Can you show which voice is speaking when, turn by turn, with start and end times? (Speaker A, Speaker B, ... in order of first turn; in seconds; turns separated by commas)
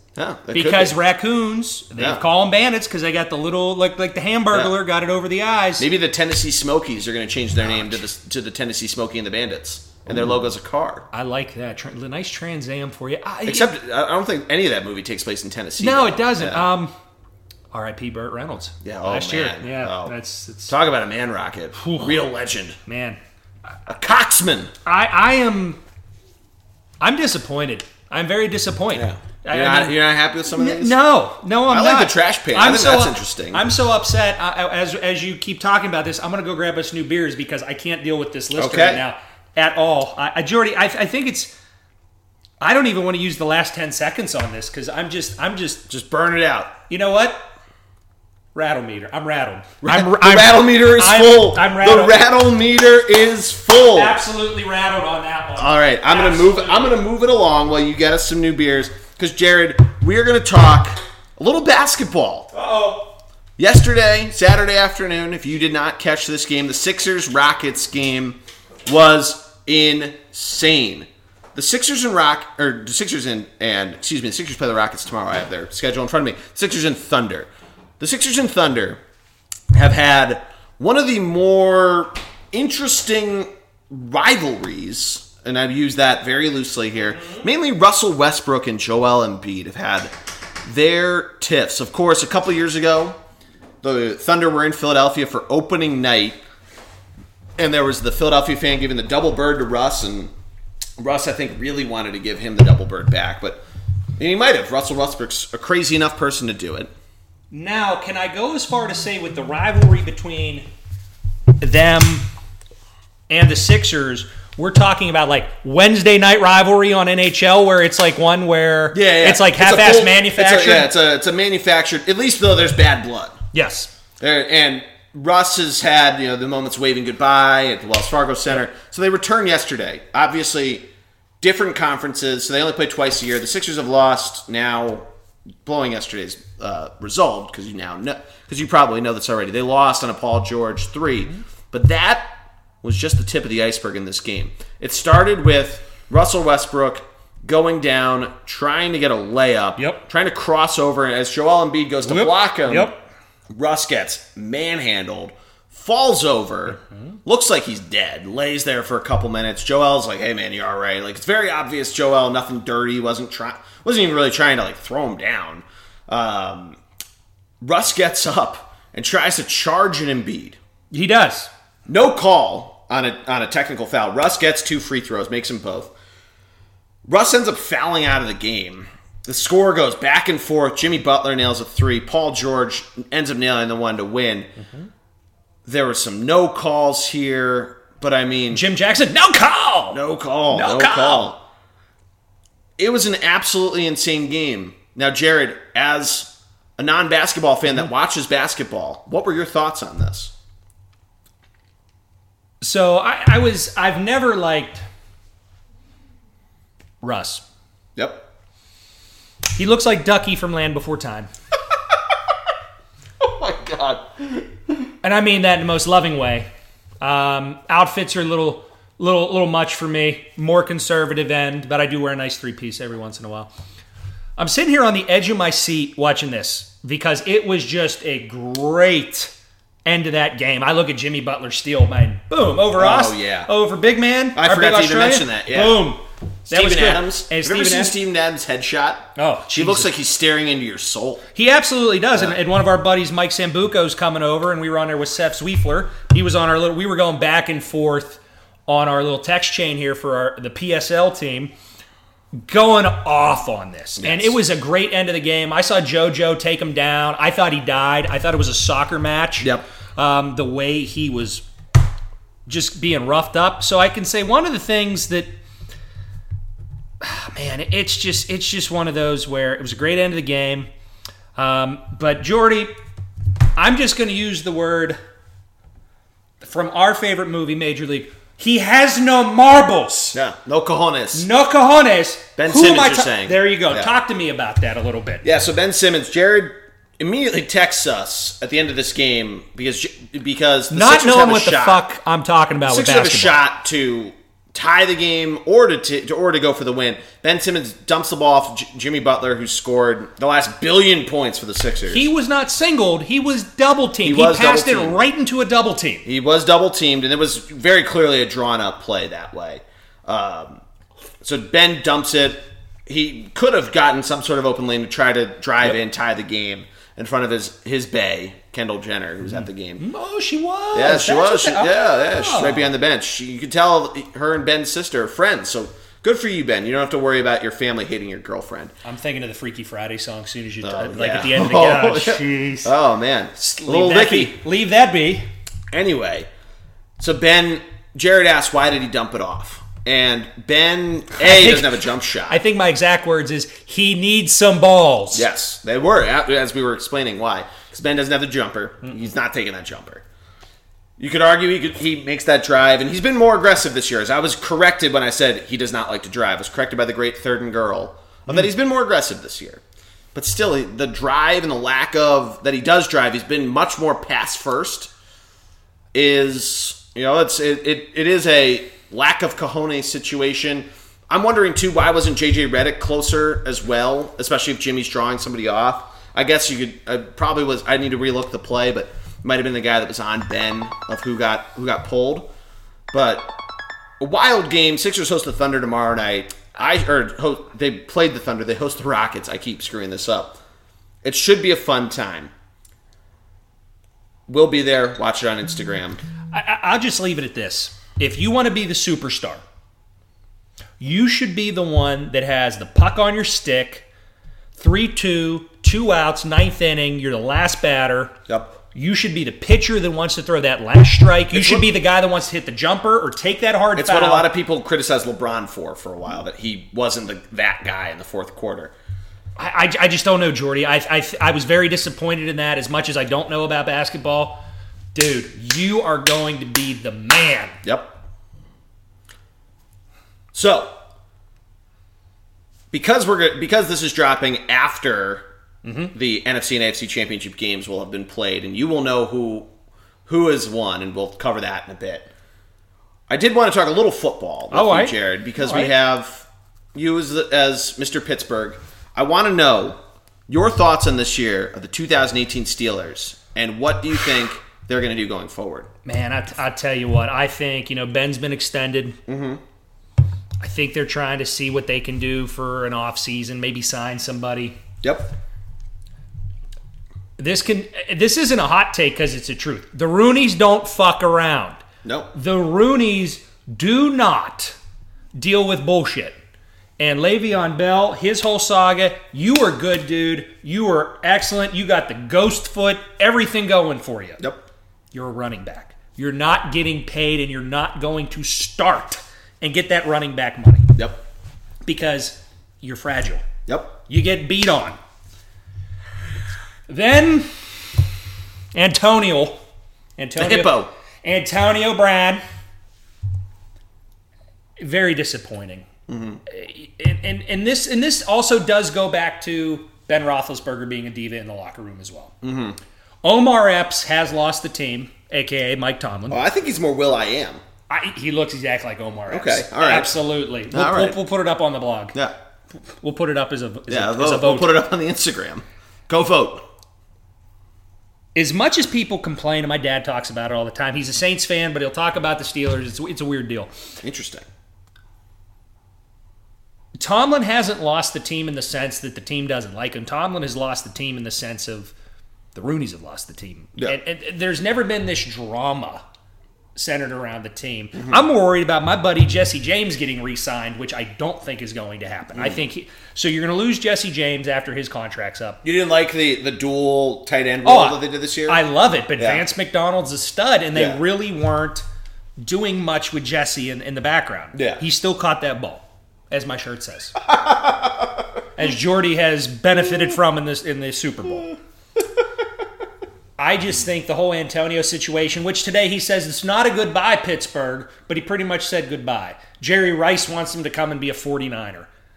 Speaker A: 0.2-1.0, Speaker B: 0.5-5.9, Speaker A: 2.0-2.2, Speaker A: 5.8-11.1, Speaker B: 7.7-8.0, Speaker B: 11.1-13.7, Speaker A: 13.4-16.7, Speaker B: 15.8-16.9, Speaker B: 17.7-20.7, Speaker A: 18.8-20.1, Speaker A: 20.7-22.8, Speaker B: 21.8-22.2, Speaker B: 22.9-23.2, Speaker A: 23.9-24.7, Speaker B: 24.9-25.8, Speaker B: 27.0-30.0, Speaker A: 28.9-31.0, Speaker B: 30.5-41.5, Speaker A: 31.7-33.6, Speaker A: 38.5-39.0, Speaker B: 42.6-45.9, Speaker A: 45.9-46.8, Speaker B: 46.9-47.5, Speaker B: 48.5-52.3, Speaker A: 49.8-54.2, Speaker B: 53.9-57.0, Speaker A: 55.6-62.5, Speaker B: 62.5-63.1, Speaker A: 63.6-77.5, Speaker A: 78.0-79.0, Speaker A: 79.7-90.1, Speaker A: 90.6-93.2, Speaker A: 93.8-96.4, Speaker A: 97.6-100.3, Speaker A: 101.0-103.6, Speaker A: 104.2-106.9, Speaker B: 107.5-110.7, Speaker B: 111.6-112.3, Speaker B: 113.3-120.9, Speaker A: 118.9-123.4, Speaker B: 123.5-123.9, Speaker A: 124.2-130.9, Speaker A: 131.4-135.1, Speaker A: 135.7-153.0, Speaker B: 149.8-150.0, Speaker B: 152.0-153.0, Speaker A: 153.5-166.8, Speaker A: 167.6-170.6, Speaker B: 170.9-171.5, Speaker A: 171.9-175.9, Speaker A: 177.1-184.5, Speaker A: 185.7-188.6, Speaker B: 188.5-191.3, Speaker A: 189.9-191.4, Speaker A: 192.8-200.3, Speaker B: 202.6-204.8, Speaker B: 207.0-207.4, Speaker A: 208.0-208.2, Speaker B: 209.6-211.3, Speaker A: 213.2-214.5, Speaker B: 215.0-216.5, Speaker B: 217.0-223.5, Speaker B: 224.4-229.3, Speaker B: 229.8-237.9, Speaker A: 232.8-233.5, Speaker A: 234.3-235.9, Speaker A: 236.5-241.2, Speaker B: 239.2-239.9, Speaker B: 241.3-251.5, Speaker B: 252.3-261.4, Speaker A: 254.0-254.4, Speaker A: 259.4-259.6, Speaker B: 262.5-265.3, Speaker B: 267.0-270.7, Speaker B: 271.4-272.7, Speaker B: 273.6-275.0, Speaker B: 276.4-280.2, Speaker A: 280.1-281.3, Speaker B: 281.1-285.2, Speaker A: 282.4-283.9, Speaker A: 285.2-291.8, Speaker B: 290.7-293.4, Speaker A: 292.6-302.1, Speaker B: 301.9-306.1, Speaker A: 304.0-305.0, Speaker A: 306.1-310.6, Speaker A: 311.2-319.9, Speaker B: 319.8-322.7, Speaker A: 320.7-328.7, Speaker B: 328.8-332.7, Speaker A: 330.6-334.4, Speaker B: 333.4-335.3, Speaker A: 335.7-336.3, Speaker A: 337.0-342.4, Speaker B: 341.2-345.3, Speaker A: 345.1-350.0, Speaker A: 351.0-359.6, Speaker A: 360.1-364.9, Speaker A: 365.9-382.3, Speaker A: 382.9-383.3, Speaker A: 384.0-390.4, Speaker A: 391.0-392.3, Speaker A: 394.3-396.0, Speaker B: 396.3-399.4, Speaker B: 400.8-403.9, Speaker B: 404.6-408.2, Speaker A: 408.3-408.6, Speaker B: 408.7-414.3, Speaker A: 411.3-411.7, Speaker A: 413.8-418.7, Speaker B: 419.4-424.4, Speaker B: 424.9-427.6, Speaker A: 427.6-428.0, Speaker A: 430.3-430.8, Speaker A: 432.7-435.3, Speaker B: 435.6-435.9, Speaker A: 435.9-439.5, Speaker A: 440.1-442.1, Speaker A: 443.1-455.7, Speaker B: 444.5-445.7, Speaker B: 455.9-459.0, Speaker A: 459.1-459.4, Speaker B: 460.4-464.6, Speaker A: 464.8-465.1, Speaker B: 467.2-471.6, Speaker A: 471.8-472.1, Speaker B: 472.1-474.6, Speaker B: 475.1-476.2, Speaker B: 476.8-484.2, Speaker A: 484.2-484.4, Speaker B: 484.9-490.7, Speaker B: 491.6-493.2, Speaker A: 493.5-493.8, Speaker B: 493.9-494.8, Speaker B: 496.7-497.4, Speaker B: 498.5-499.4, Speaker B: 500.0-502.2, Speaker A: 500.2-500.7, Speaker B: 504.6-505.7, Speaker A: 505.9-506.2, Speaker B: 506.3-512.1, Speaker A: 512.2-512.6, Speaker B: 513.0-516.2, Speaker A: 516.1-517.4, Speaker B: 517.7-522.0, Speaker A: 519.1-521.0, Speaker B: 522.7-524.6, Speaker A: 523.7-526.5, Speaker B: 528.1-533.5, Speaker A: 533.8-534.2, Speaker B: 536.8-541.7, Speaker B: 542.4-545.8, Speaker B: 546.5-555.4, Speaker A: 547.8-548.0, Speaker A: 552.1-552.4, Speaker A: 555.4-558.4, Speaker B: 557.5-561.6, Speaker A: 559.0-559.2, Speaker A: 560.5-560.8, Speaker B: 562.2-567.0, Speaker A: 564.3-564.6, Speaker A: 567.0-568.0, Speaker B: 568.4-571.3, Speaker B: 573.2-581.7